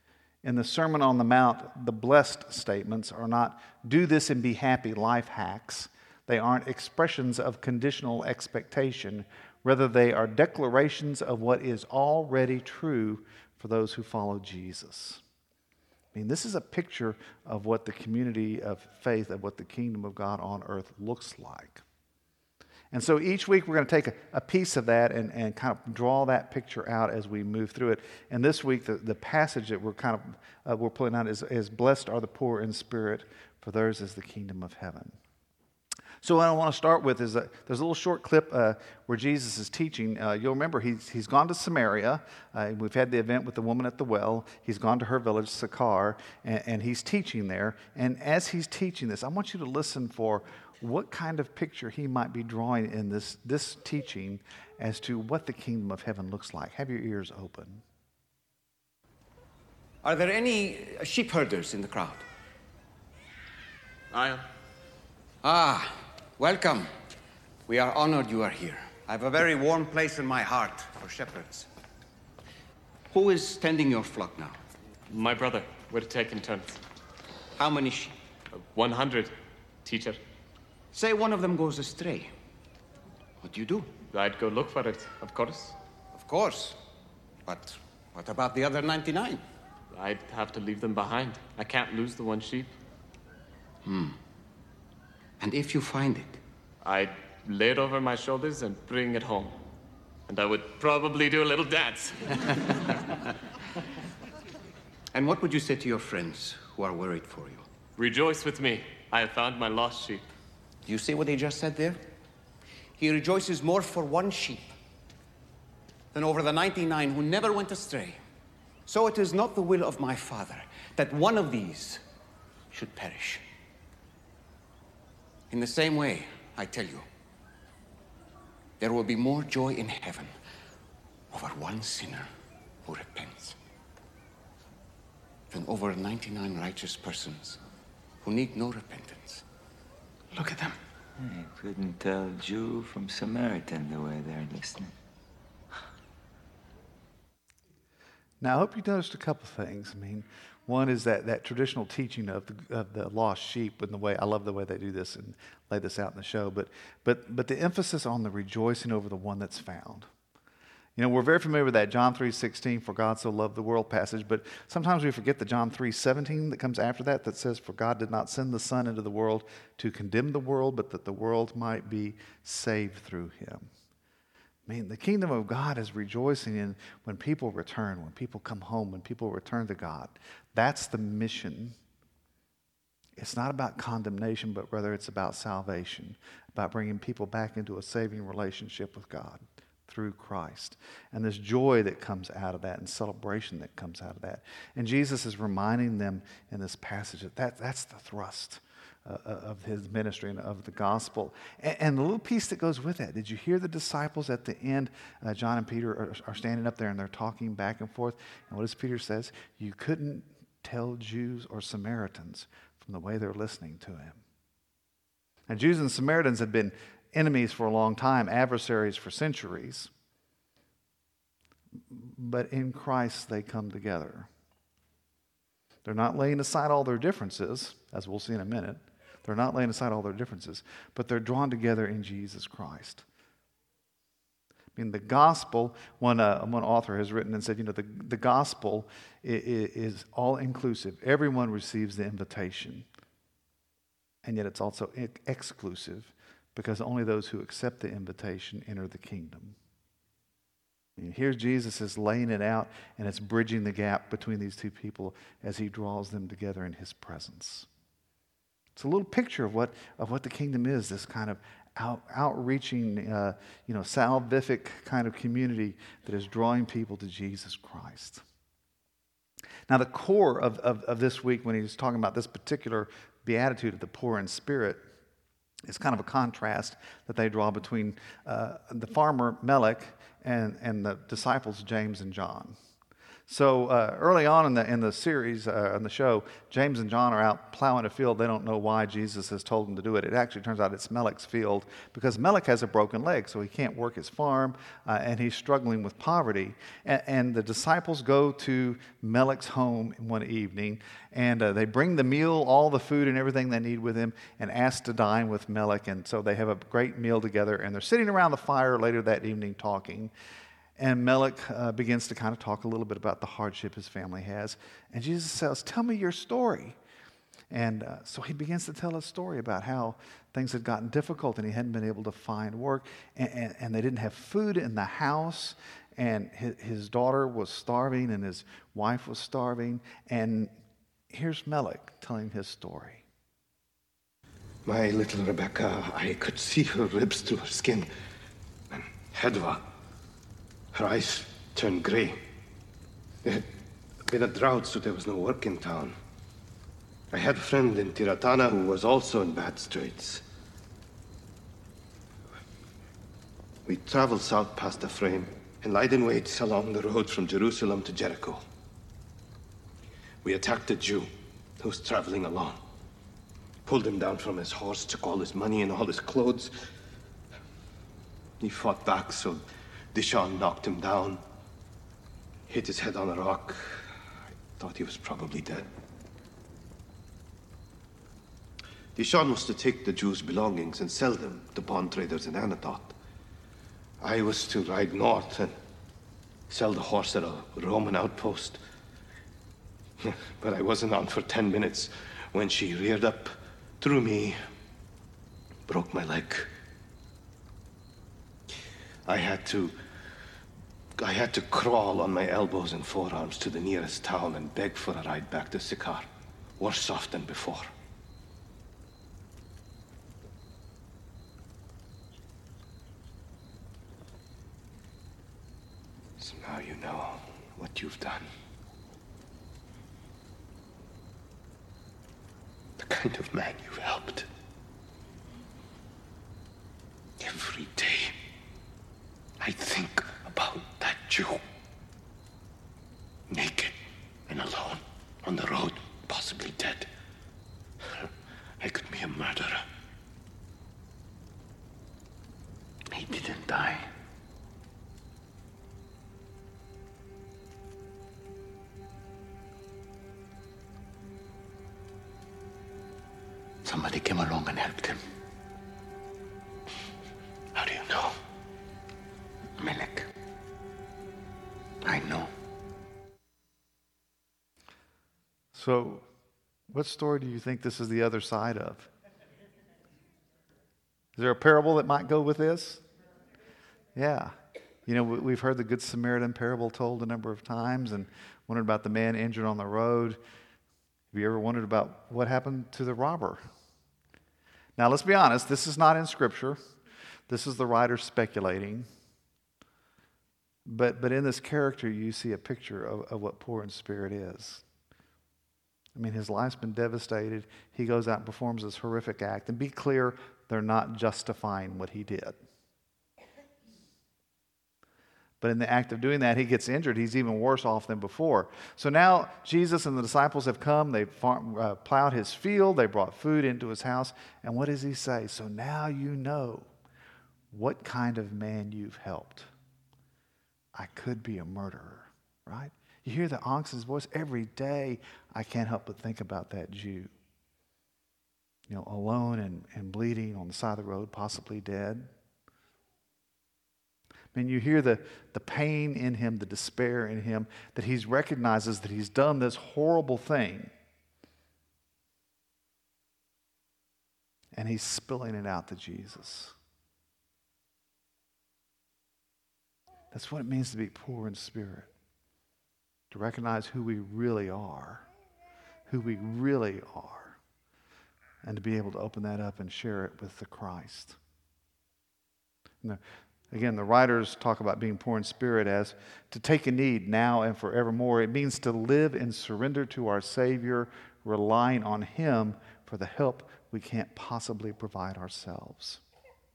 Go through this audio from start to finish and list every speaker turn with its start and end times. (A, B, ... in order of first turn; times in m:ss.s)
0:00.4-0:15.2 A
0:16.1-0:21.8 A
0:22.9-0:35.2 A
0:36.2-0:57.8 A
1:00.0-1:02.2 B
1:04.1-1:04.4 C
1:05.4-1:06.9 B
1:07.7-1:11.7 B
1:13.1-1:14.6 B
1:15.1-1:16.8 C
1:17.6-1:18.2 B
1:18.5-1:20.2 C
1:20.9-1:22.3 B
1:23.4-1:23.9 B
1:24.1-1:25.8 C
1:26.1-1:26.8 B
1:27.5-1:29.4 B
1:29.9-1:32.7 C
1:33.8-1:34.2 B
1:35.4-1:36.4 B
1:36.8-1:39.6 C
1:40.3-1:42.9 C
1:45.1-1:47.6 B
1:48.0-1:50.3 C
1:50.9-1:52.0 B
1:53.0-1:54.7 B
1:56.1-1:58.2 B
1:58.9-2:02.0 B
2:02.7-2:03.4 B
2:05.5-2:07.1 B
2:08.8-2:10.3 B
2:11.3-2:12.3 B
2:12.8-2:13.6 B
2:15.5-2:17.6 B
2:18.2-2:19.4 B
2:20.3-2:20.8 B
2:21.2-2:24.9 D
2:28.4-2:40.1 A
2:41.0-2:53.7 A
2:54.7-3:01.8 A
3:03.2-3:34.2 A
3:35.5-3:39.9 A
3:41.9-3:44.3 A
3:45.8-3:53.0 A
3:54.8-4:02.8 A
4:04.2-4:09.6 A
4:11.0-4:17.7 A
4:18.8-4:28.2 A
4:29.7-4:34.8 A
4:35.7-4:42.6 A
4:43.3-5:10.1 A
5:10.8-5:16.8 A
5:17.5-5:30.5 A
5:31.1-5:33.0 A
5:34.6-5:37.9 E
5:38.7-5:39.7 E
5:40.7-5:42.2 E
5:43.2-5:45.9 E
5:47.1-5:50.2 E
5:53.7-5:58.4 E
6:00.2-6:02.6 E
6:03.6-6:06.6 E
6:08.4-6:09.4 E
6:09.9-6:11.2 E
6:12.5-6:13.9 E
6:14.6-6:15.7 E
6:18.9-6:22.9 E
6:24.0-6:25.5 E
6:26.5-6:28.6 E
6:30.0-6:34.4 E
6:35.7-6:36.5 E
6:39.0-6:39.8 E
6:41.0-6:46.1 E
6:46.6-6:47.7 E
6:56.2-6:58.3 E
7:02.8-7:04.3 E
7:07.2-7:08.2 E
7:09.4-7:11.4 E
7:13.3-7:13.8 E
7:14.3-7:16.9 E
7:17.8-7:19.7 E
7:22.9-7:23.9 B
7:33.6-7:35.0 B
7:37.6-7:38.0 E
7:39.6-7:40.1 B
7:41.8-7:42.3 B
7:45.5-7:46.1 A
7:46.7-7:48.9 A
7:51.2-7:52.8 A
7:53.9-7:54.3 A
7:54.8-8:00.2 A
8:01.1-8:03.4 A
8:04.8-8:06.6 A
8:07.3-8:08.9 A
8:10.7-8:14.6 A
8:15.9-8:22.4 A
8:25.4-8:36.7 A
8:37.5-8:39.5 A
8:40.8-8:47.1 A
8:48.7-8:52.1 A
8:54.3-9:00.7 A
9:04.5-9:06.6 A
9:10.1-9:11.9 A
9:13.1-9:15.1 A
9:15.9-9:17.4 A
9:18.4-9:21.2 A
9:22.8-9:36.0 A